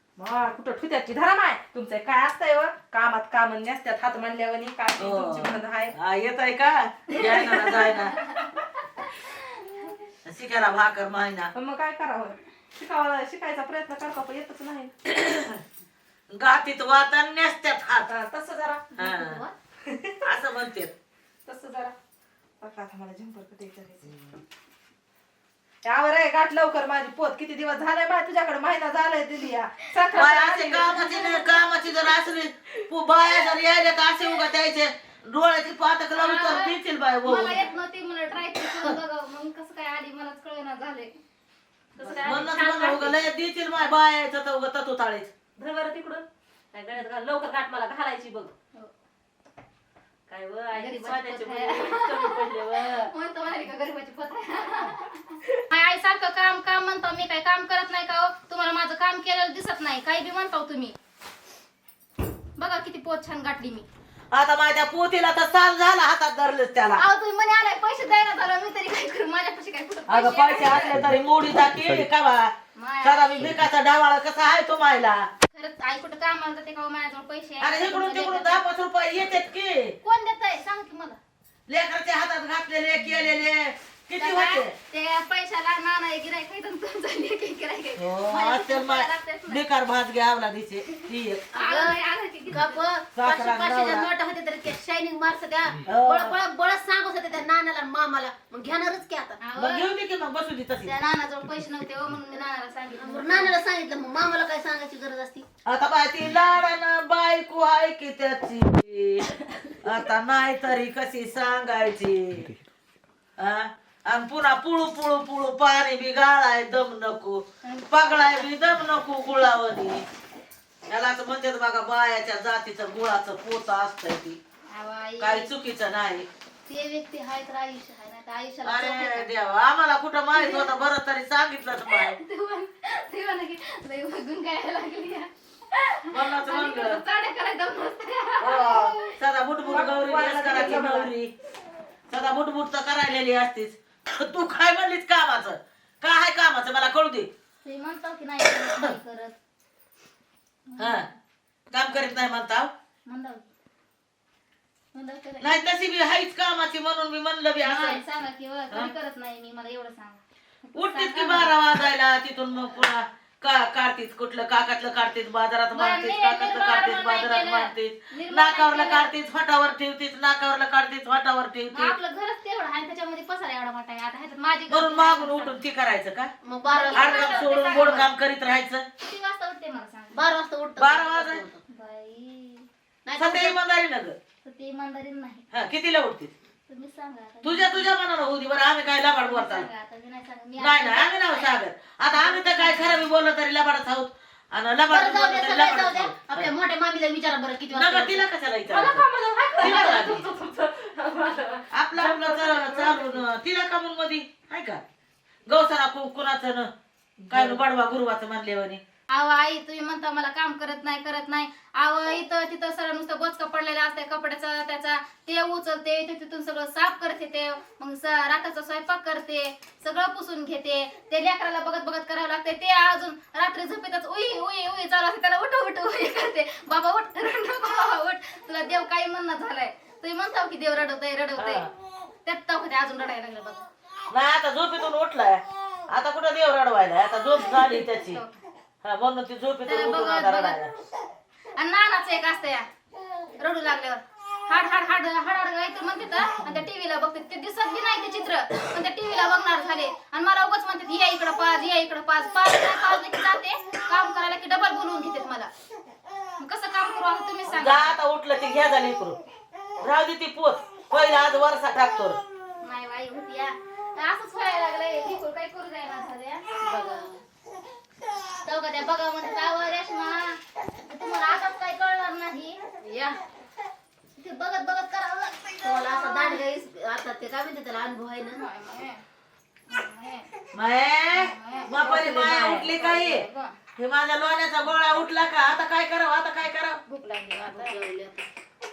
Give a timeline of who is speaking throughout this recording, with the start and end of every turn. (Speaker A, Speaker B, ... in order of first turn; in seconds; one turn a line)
Speaker A: 0.2-5.9
Speaker B: 5.0-8.2
Speaker C: 7.4-9.9
Speaker B: 10.2-11.5
Speaker A: 11.5-14.9
Speaker B: 15.1-15.6
Speaker B: 16.3-18.1
Speaker A: 18.1-19.0
Speaker B: 19.0-19.4
Speaker C: 19.1-19.5
Speaker A: 19.9-20.2
Speaker B: 20.2-20.9
Speaker A: 21.5-21.9
Speaker A: 22.6-24.1
Speaker A: 25.8-31.1
Speaker B: 30.1-37.6
Speaker C: 30.8-31.6
Speaker C: 36.1-41.1
Speaker A: 42.0-42.5
Speaker B: 42.0-45.3
Speaker C: 42.0-43.2
Speaker A: 45.6-48.5
Speaker A: 50.3-53.1
Speaker C: 50.7-61.0
Speaker C: 62.6-63.9
Speaker B: 64.3-67.0
Speaker C: 67.0-71.0
Speaker B: 70.1-75.3
Speaker C: 72.8-73.5
Speaker C: 75.5-78.6
Speaker B: 77.6-80.0
Speaker C: 80.0-81.2
Speaker B: 81.7-84.7
Speaker C: 84.2-89.6
Speaker B: 88.0-91.5
Speaker C: 91.5-92.8
Speaker D: 91.5-92.0
Speaker D: 92.5-99.4
Speaker B: 93.2-94.1
Speaker B: 95.9-96.4
Speaker C: 99.4-99.9
Speaker B: 99.6-100.9
Speaker C: 100.8-103.6
Speaker D: 103.0-105.5
Speaker B: 105.7-109.3
Speaker B: 109.8-112.5
Speaker B: 113.4-120.0
Speaker C: 117.6-118.5
Speaker B: 120.9-124.4
Speaker C: 124.7-125.5
Speaker B: 125.2-126.3
Speaker C: 126.7-129.4
Speaker B: 128.7-132.2
Speaker C: 130.3-130.8
Speaker C: 131.9-139.2
Speaker B: 136.1-137.0
Speaker B: 138.4-141.3
Speaker C: 139.7-140.0
Speaker A: 139.7-141.1
Speaker B: 142.1-147.3
Speaker C: 147.6-149.4
Speaker C: 150.7-151.2
Speaker B: 150.8-151.1
Speaker B: 151.7-152.7
Speaker C: 151.9-152.2
Speaker C: 153.1-153.5
Speaker C: 154.9-155.7
Speaker B: 155.4-158.0
Speaker C: 157.6-161.5
Speaker B: 160.8-171.9
Speaker C: 165.7-169.1
Speaker C: 171.7-175.6
Speaker B: 174.7-176.3
Speaker D: 176.4-177.9
Speaker C: 176.7-178.1
Speaker B: 176.9-178.9
Speaker C: 179.0-180.2
Speaker D: 180.1-181.6
Speaker B: 180.8-181.4
Speaker C: 181.7-182.7
Speaker D: 183.1-183.6
Speaker B: 183.2-184.2
Speaker C: 184.4-185.4
Speaker B: 185.5-186.3
Speaker C: 186.7-187.9
Speaker B: 187.4-189.7
Speaker C: 189.0-193.0
Speaker B: 190.6-196.5
Speaker D: 194.9-198.2
Speaker B: 197.7-199.0
Speaker A: 198.7-203.2
Speaker C: 198.7-199.0
Speaker C: 199.5-200.3
Speaker B: 199.6-200.2
Speaker B: 201.7-204.8
Speaker B: 205.5-206.7
Speaker A: 207.2-207.6
Speaker B: 207.3-208.8
Speaker C: 209.1-231.7
Speaker B: 231.4-231.7
Speaker C: 232.2-233.7
Speaker B: 234.1-238.2
Speaker C: 237.3-238.4
Speaker B: 238.8-240.7
Speaker C: 239.7-240.6
Speaker C: 241.6-242.7
Speaker C: 243.4-255.5
Speaker B: 246.4-246.7
Speaker C: 256.4-257.9
Speaker B: 257.5-259.2
Speaker B: 259.8-262.2
Speaker C: 262.6-266.6
Speaker D: 266.6-267.2
Speaker C: 268.4-273.2
Speaker C: 274.1-276.5
Speaker D: 275.6-278.5
Speaker C: 278.3-279.0
Speaker C: 279.7-280.3
Speaker B: 280.5-283.2
Speaker C: 281.1-283.6
Speaker B: 283.8-286.8
Speaker C: 286.9-287.8
Speaker D: 287.4-288.3